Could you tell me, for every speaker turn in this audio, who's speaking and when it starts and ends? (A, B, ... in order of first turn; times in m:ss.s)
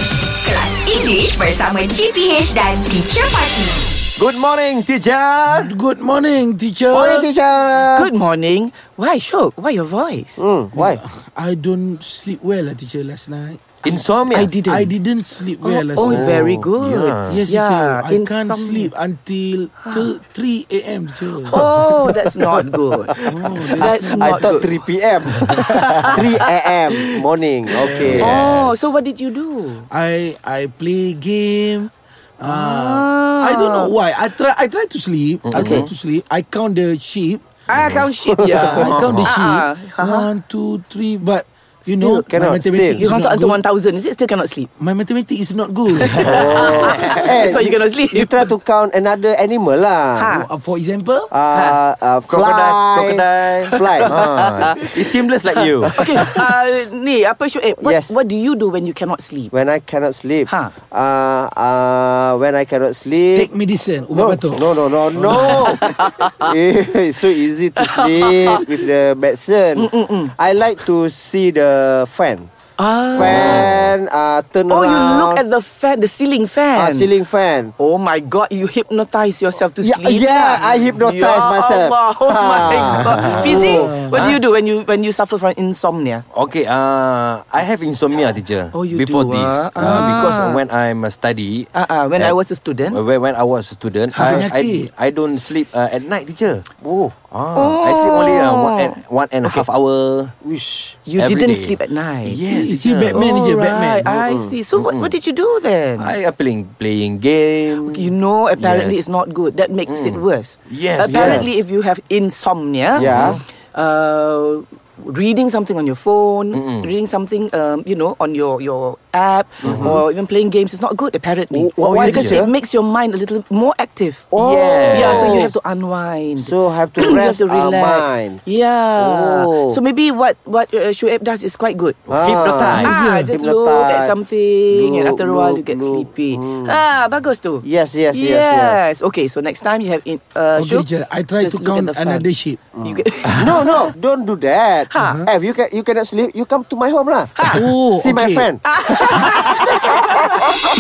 0:00.4-0:03.9 A
0:04.2-0:05.8 B
0:05.5-0:07.3 C
0:06.9-0:08.1 D
0:07.9-0:10.4 E
0:10.4-0:11.0 D
0:10.7-0:14.0 C
0:13.8-0:14.5 B
0:14.3-0:14.9 E
0:14.6-0:16.2 C
0:15.6-0:18.9 E
0:16.0-0:16.6 D
0:16.8-0:17.4 B
0:17.3-0:21.8 C
0:21.4-0:23.1 E
0:23.2-0:28.3 D
0:23.3-0:24.6 C
0:23.7-0:24.7 E
0:25.5-0:26.5 E
0:27.8-0:28.4 C
0:28.1-0:28.9 B
0:28.2-0:29.9 E
0:29.9-0:37.4 C
0:32.4-0:33.9 E
0:35.4-0:35.9 B
0:35.5-0:35.9 E
0:37.7-0:40.3 E
0:37.7-0:38.1 B
0:38.6-0:43.6 C
0:38.7-0:39.3 B
0:41.9-0:43.1 D
0:41.9-0:42.3 E
0:43.0-0:44.7 E
0:44.8-0:46.7 C
0:46.0-0:48.5 E
0:46.2-0:50.3 D
0:46.6-0:47.3 B
0:50.2-0:50.5 E
0:50.4-0:51.3 C
0:51.3-0:54.1 D
0:51.5-0:51.8 E
0:52.3-0:56.4 B
0:53.7-0:55.0 E
0:55.8-0:59.5 E
0:57.8-0:58.2 D
0:59.5-1:03.5 D
1:00.5-1:00.7 E
1:03.4-1:05.8 C
1:04.1-1:12.5 D
1:05.2-1:06.5 E
1:07.8-1:08.7 E
1:09.8-1:10.3 E
1:12.8-1:13.7 E
1:13.2-1:15.4 D
1:13.2-1:13.9 B
1:14.7-1:17.1 E
1:16.8-1:17.7 D
1:17.8-1:26.2 E
1:19.8-1:23.9 D
1:22.9-1:24.4 B
1:23.7-1:24.2 C
1:26.3-1:32.4 B
1:28.7-1:30.6 E
1:31.7-1:33.0 E
1:32.9-1:36.6 B
1:34.1-1:34.9 C
1:36.8-1:37.2 D
1:37.3-1:40.3 B
1:37.5-1:39.7 E
1:40.4-1:41.0 D
1:41.1-1:42.4 E
1:41.2-1:43.2 B
1:42.5-1:44.2 C
1:43.1-1:46.2 E
1:44.2-1:44.6 D
1:44.8-1:45.1 B
1:46.0-1:49.0 B
1:47.8-2:04.3 E
1:49.9-1:51.6 B
1:51.1-1:51.5 D
1:53.0-1:53.4 B
1:53.0-1:53.4 D
1:56.5-1:56.9 B
1:59.6-2:00.0 D
1:59.6-2:00.0 B
2:01.5-2:02.5 D
2:01.8-2:02.4 B
2:04.3-2:05.6 D
2:04.4-2:05.6 B
2:04.9-2:12.0 E
2:06.4-2:08.4 D
2:09.0-2:09.8 D
2:12.1-2:13.0 B
2:12.1-2:14.1 D
2:12.8-2:22.3 E
2:14.7-2:16.8 D
2:17.6-2:18.8 D
2:20.6-2:22.6 C
2:22.7-2:29.7 D
2:22.8-2:23.8 E
2:24.9-2:25.3 E
2:25.0-2:25.2 C
2:27.4-2:27.6 E
2:27.5-2:28.5 C
2:28.6-2:30.5 E
2:29.1-2:29.5 C